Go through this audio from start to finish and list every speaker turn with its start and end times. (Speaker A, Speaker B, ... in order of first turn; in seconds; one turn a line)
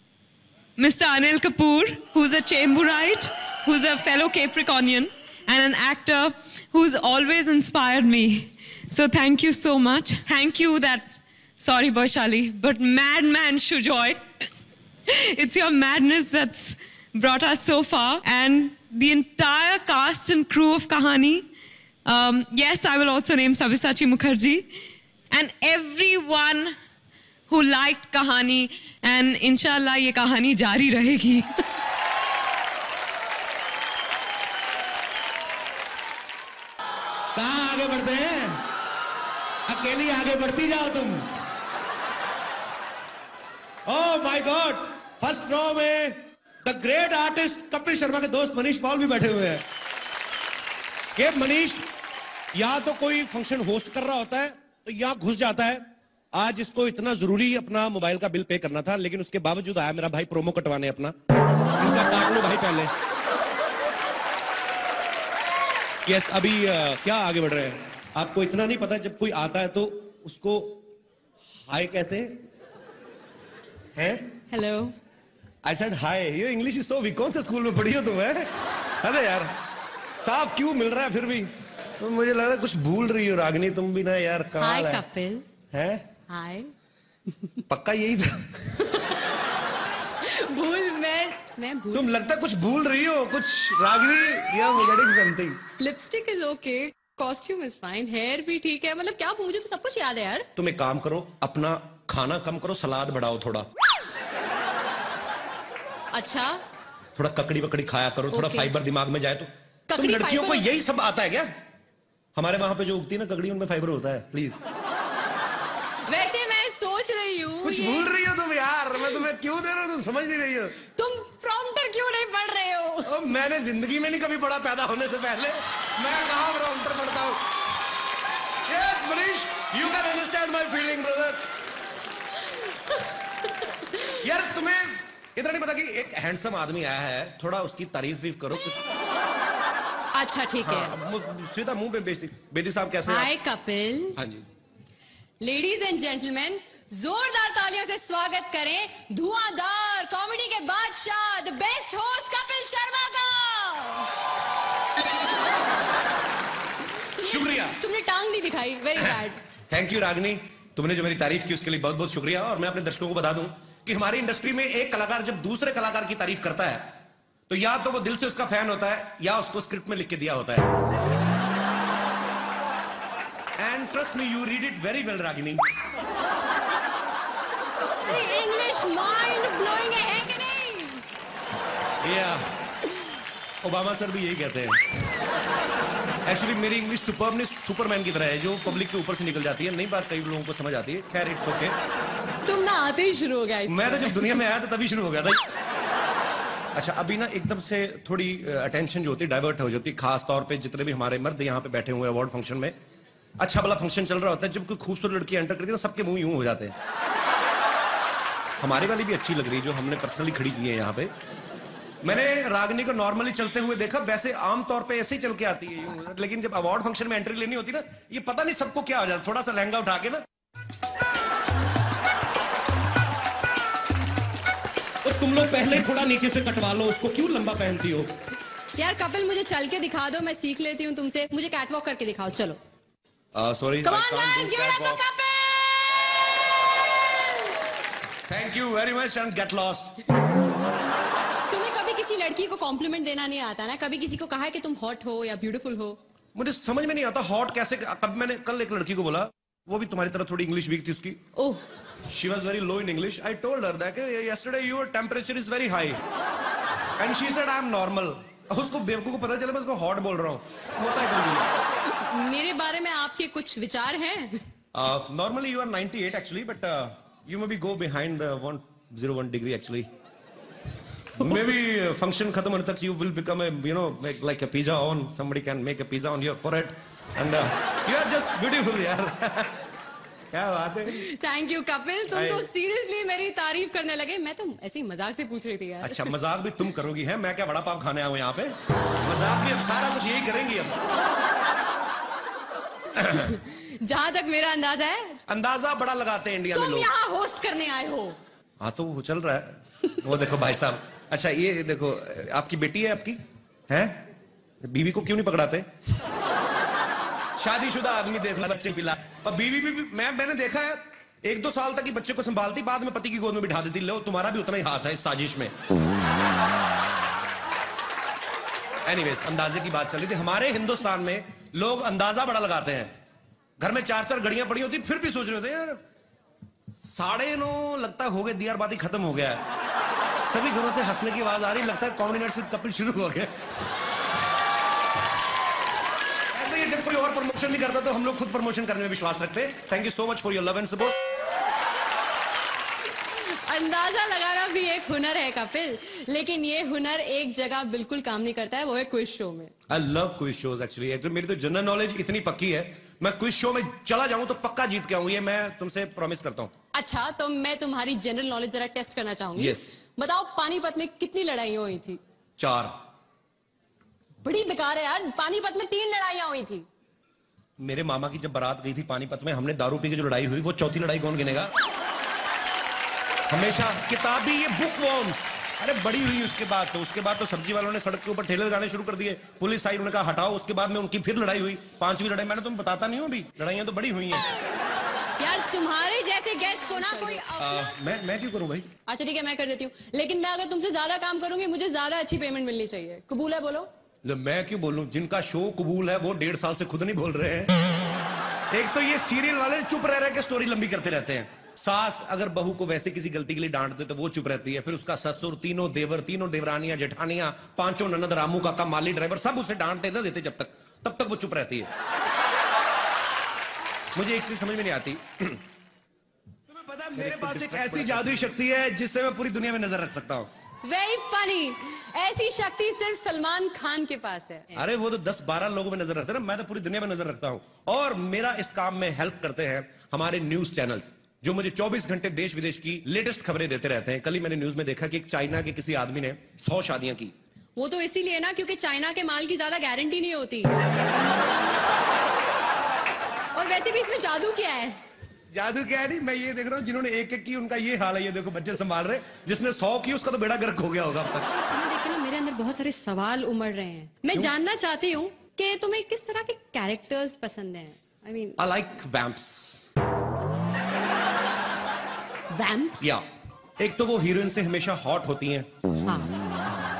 Speaker A: 0.8-14.2
Speaker A: 15.1-21.4
Speaker A: 22.1-24.6
Speaker A: 25.3-26.7
Speaker A: 27.5-31.6
Speaker B: 37.3-38.6
Speaker B: 39.7-41.2
Speaker B: 43.9-49.6
Speaker B: 51.2-51.9
Speaker B: 52.5-61.1
Speaker B: 61.8-62.9
Speaker B: 66.0-70.8
Speaker B: 71.7-72.3
Speaker B: 74.0-74.2
Speaker C: 74.5-74.9
Speaker B: 75.6-78.5
Speaker B: 79.0-79.5
Speaker B: 80.2-85.0
Speaker C: 84.6-85.4
Speaker B: 85.7-86.0
Speaker C: 86.3-86.7
Speaker B: 87.7-88.4
Speaker C: 90.2-92.1
Speaker B: 91.9-95.6
Speaker C: 95.8-100.5
Speaker B: 100.5-103.7
Speaker C: 106.1-106.6
Speaker B: 107.2-111.5
Speaker C: 108.3-108.7
Speaker C: 109.9-110.7
Speaker B: 112.3-114.6
Speaker C: 116.1-118.1
Speaker B: 117.6-120.7
Speaker C: 121.0-123.1
Speaker B: 123.1-127.4
Speaker B: 128.7-131.4
Speaker B: 134.2-138.8
Speaker C: 140.1-140.9
Speaker B: 140.6-143.3
Speaker C: 143.1-144.2
Speaker B: 144.2-144.4
Speaker C: 145.4-154.1
Speaker C: 157.2-159.4
Speaker B: 157.2-157.8
Speaker B: 159.7-166.9
Speaker B: 167.5-170.7
Speaker B: 173.6-175.6
Speaker C: 178.0-181.0
Speaker B: 182.0-182.4
Speaker B: 183.6-184.8
Speaker B: 186.2-191.8
Speaker C: 192.4-194.4
Speaker B: 193.7-195.4
Speaker B: 196.8-202.7
Speaker B: 203.4-206.7
Speaker B: 208.6-211.1
Speaker B: 212.0-220.2
Speaker B: 225.0-228.1
Speaker C: 228.8-232.6
Speaker B: 233.3-235.0
Speaker C: 233.8-236.2
Speaker B: 238.3-239.9
Speaker C: 241.5-246.0
Speaker B: 246.3-251.2
Speaker C: 251.3-251.6
Speaker B: 252.1-256.0
Speaker B: 257.0-261.5
Speaker C: 262.0-264.4
Speaker B: 264.7-269.9
Speaker B: 271.2-279.5
Speaker B: 280.3-281.0
Speaker C: 280.9-286.1
Speaker B: 282.1-282.4
Speaker B: 285.8-290.8
Speaker C: 293.1-295.2
Speaker B: 295.3-296.9
Speaker C: 296.5-298.2
Speaker B: 298.6-304.0
Speaker B: 304.6-305.7
Speaker B: 307.4-315.5
Speaker B: 318.8-322.9
Speaker B: 323.6-325.8
Speaker B: 326.7-329.4
Speaker B: 330.3-333.3
Speaker B: 336.3-340.9
Speaker C: 343.1-349.5
Speaker B: 349.7-356.5
Speaker C: 356.7-362.0
Speaker B: 359.4-359.6
Speaker B: 362.4-362.7
Speaker C: 364.2-366.6
Speaker B: 367.6-371.5
Speaker B: 373.3-384.3
Speaker C: 385.2-387.8
Speaker B: 387.4-388.7
Speaker C: 388.9-393.7
Speaker B: 394.0-397.5
Speaker B: 398.5-411.7
Speaker B: 413.9-415.4
Speaker B: 416.5-420.3
Speaker C: 420.6-424.6
Speaker B: 424.6-437.1
Speaker C: 437.6-440.5
Speaker C: 443.3-444.8
Speaker B: 445.3-451.2
Speaker C: 451.3-458.4
Speaker B: 458.4-459.6
Speaker C: 462.3-462.9
Speaker B: 463.6-465.5